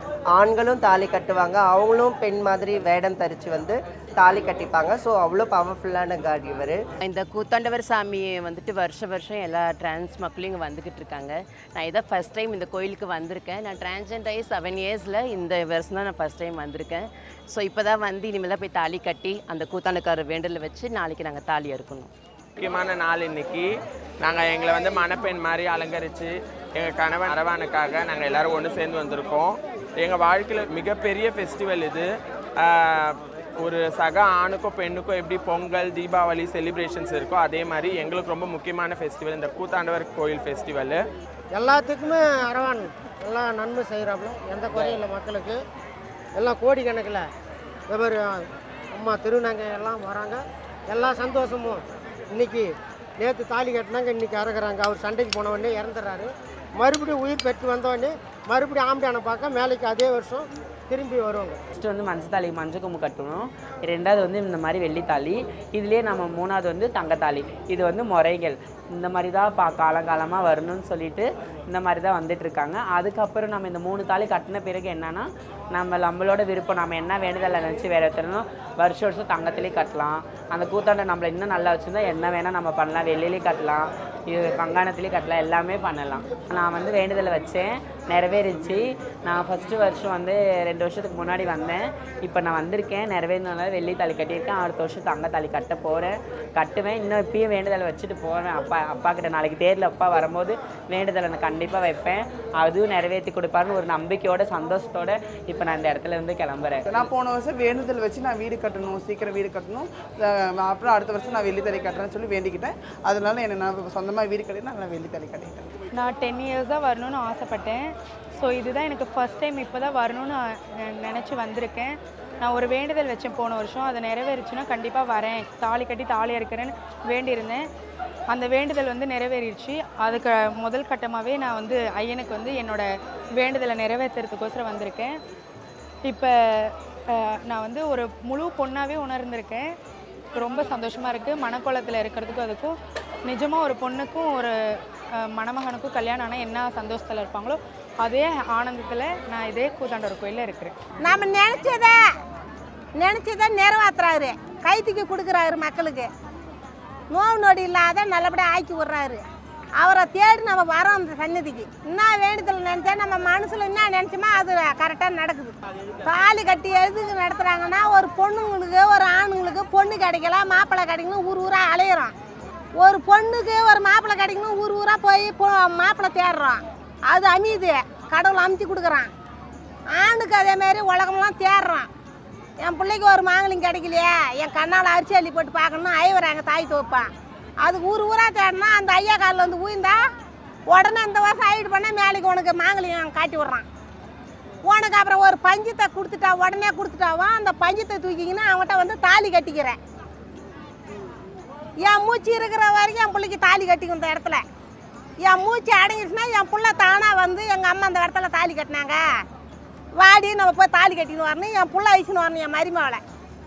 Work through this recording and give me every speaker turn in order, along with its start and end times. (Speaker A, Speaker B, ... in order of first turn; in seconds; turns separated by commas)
Speaker A: 0.3-6.8, Speaker B: 7.0-22.1, Speaker C: 22.6-23.7, Speaker C: 24.2-32.1, Speaker C: 32.6-41.0, Speaker D: 41.5-45.6, Speaker B: 44.7-45.0, Speaker D: 46.4-47.2, Speaker D: 47.9-48.2, Speaker D: 48.9-61.6, Speaker E: 61.7-106.8, Speaker F: 106.9-115.7, Speaker G: 115.9-117.9, Speaker G: 118.4-127.6, Speaker G: 128.3-132.8, Speaker G: 133.4-135.2, Speaker G: 136.1-139.7, Speaker G: 140.3-142.7, Speaker G: 143.2-144.5, Speaker G: 145.3-150.7, Speaker H: 151.0-151.9, Speaker H: 153.0-156.1, Speaker H: 157.1-159.2, Speaker H: 159.8-172.1, Speaker H: 172.8-179.1, Speaker H: 179.9-181.9, Speaker H: 182.6-187.1, Speaker H: 187.6-190.0, Speaker H: 190.7-193.6, Speaker H: 194.6-199.8, Speaker H: 201.8-204.4, Speaker H: 205.2-209.0, Speaker H: 210.0-213.0